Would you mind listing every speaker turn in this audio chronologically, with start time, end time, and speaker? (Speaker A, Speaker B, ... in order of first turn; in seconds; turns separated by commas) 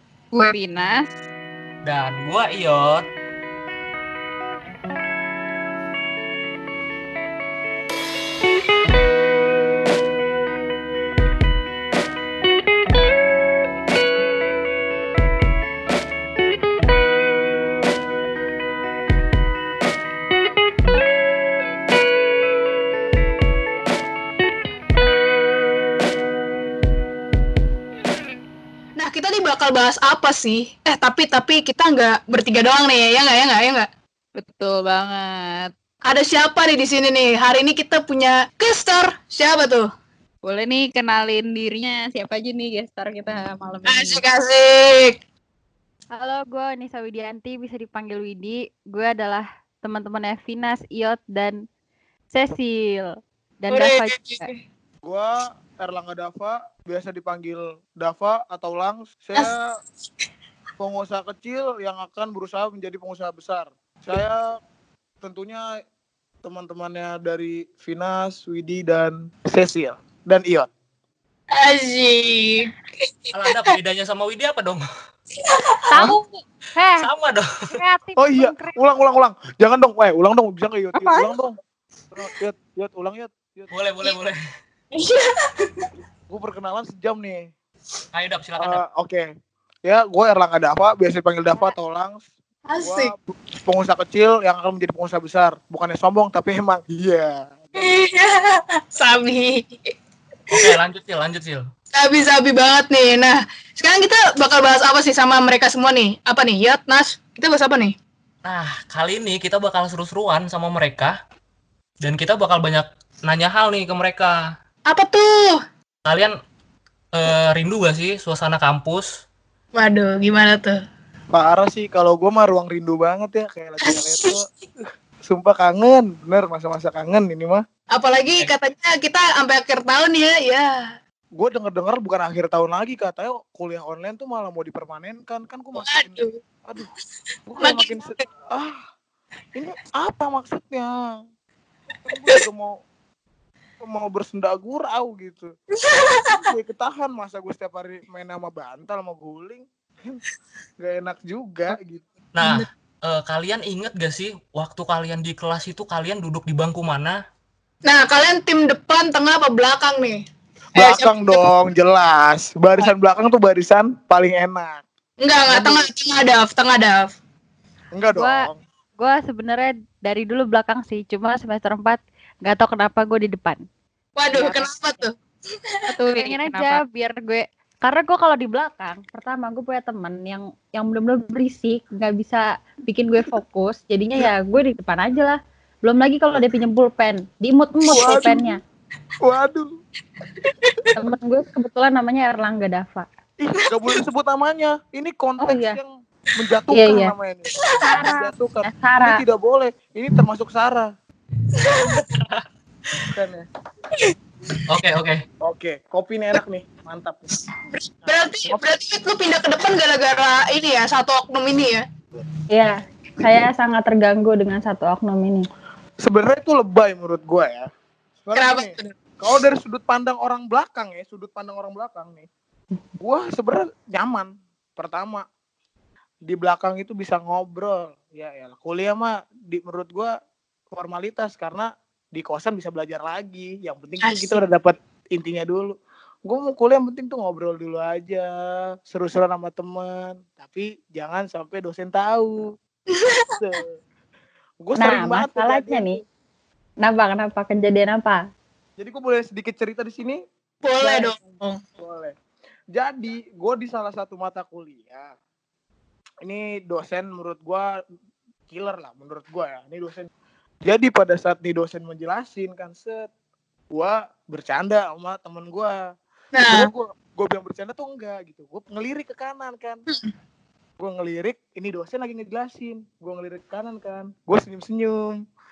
Speaker A: 0.3-1.1, Speaker B: 1.9-3.0, Speaker C: 29.0-33.9, Speaker A: 34.4-35.7, Speaker C: 36.0-39.9, Speaker A: 40.5-44.2, Speaker C: 43.9-45.2, Speaker D: 46.1-51.6, Speaker D: 52.3-54.5, Speaker C: 53.7-54.6, Speaker E: 55.0-59.7, Speaker E: 60.8-64.6, Speaker E: 65.2-65.6, Speaker E: 66.4-70.7, Speaker C: 71.5-73.8, Speaker B: 73.3-74.8, Speaker C: 75.4-76.1, Speaker D: 75.9-77.1, Speaker B: 77.0-77.5, Speaker D: 77.8-78.8, Speaker E: 78.2-81.6, Speaker E: 82.1-83.7, Speaker B: 83.7-84.4, Speaker C: 84.9-85.9, Speaker E: 86.3-87.4, Speaker B: 88.1-88.8, Speaker E: 88.6-89.2, Speaker E: 89.8-92.2, Speaker C: 92.7-93.1, Speaker E: 92.8-97.9, Speaker C: 97.8-99.9, Speaker B: 100.5-101.7, Speaker C: 102.0-108.0, Speaker B: 108.5-111.1, Speaker B: 112.0-114.4, Speaker C: 114.9-115.6, Speaker B: 116.1-116.3, Speaker B: 117.1-119.1, Speaker C: 119.8-120.8, Speaker E: 121.3-124.5, Speaker C: 123.8-124.4, Speaker E: 125.3-127.6, Speaker C: 127.9-130.7, Speaker E: 131.4-136.9, Speaker C: 135.8-136.4, Speaker E: 137.5-138.8, Speaker C: 137.6-138.2, Speaker E: 139.6-140.9, Speaker E: 142.1-142.8, Speaker E: 143.8-145.5, Speaker C: 145.8-146.5, Speaker E: 146.2-150.2, Speaker E: 150.8-152.1, Speaker B: 152.4-157.2, Speaker C: 157.9-160.2, Speaker C: 160.8-161.4, Speaker E: 160.8-164.8, Speaker C: 165.2-167.2, Speaker E: 165.5-165.9, Speaker E: 167.9-168.6, Speaker D: 169.0-173.6, Speaker C: 174.2-175.1, Speaker D: 174.3-175.1, Speaker A: 175.9-176.8, Speaker D: 176.2-188.6, Speaker E: 187.9-188.5, Speaker C: 187.9-188.2, Speaker E: 189.2-189.7, Speaker C: 190.4-190.9, Speaker D: 190.9-193.1, Speaker E: 193.4-197.5, Speaker C: 193.6-194.0, Speaker D: 195.4-195.8, Speaker D: 196.7-197.1, Speaker C: 197.5-197.9, Speaker D: 197.8-199.2, Speaker E: 198.0-200.9, Speaker C: 201.5-202.2, Speaker E: 203.1-203.5, Speaker C: 203.9-204.6, Speaker B: 204.7-205.2, Speaker E: 205.4-207.2, Speaker C: 207.7-211.8, Speaker D: 212.5-215.4, Speaker E: 216.0-217.7, Speaker E: 218.2-222.3, Speaker C: 218.3-219.1, Speaker E: 223.0-225.2, Speaker E: 226.3-230.1, Speaker E: 230.8-238.3, Speaker C: 234.0-234.4, Speaker E: 238.9-242.4, Speaker C: 242.9-243.4, Speaker E: 243.3-243.7, Speaker E: 244.6-246.0, Speaker D: 244.8-246.0, Speaker D: 246.8-248.2, Speaker E: 248.8-250.2, Speaker C: 250.6-251.6, Speaker E: 251.8-252.2, Speaker E: 252.8-255.1, Speaker E: 256.2-257.7, Speaker E: 258.5-260.1, Speaker E: 260.6-263.1, Speaker E: 263.7-265.7, Speaker C: 266.3-266.7, Speaker E: 266.5-269.8, Speaker E: 270.8-275.2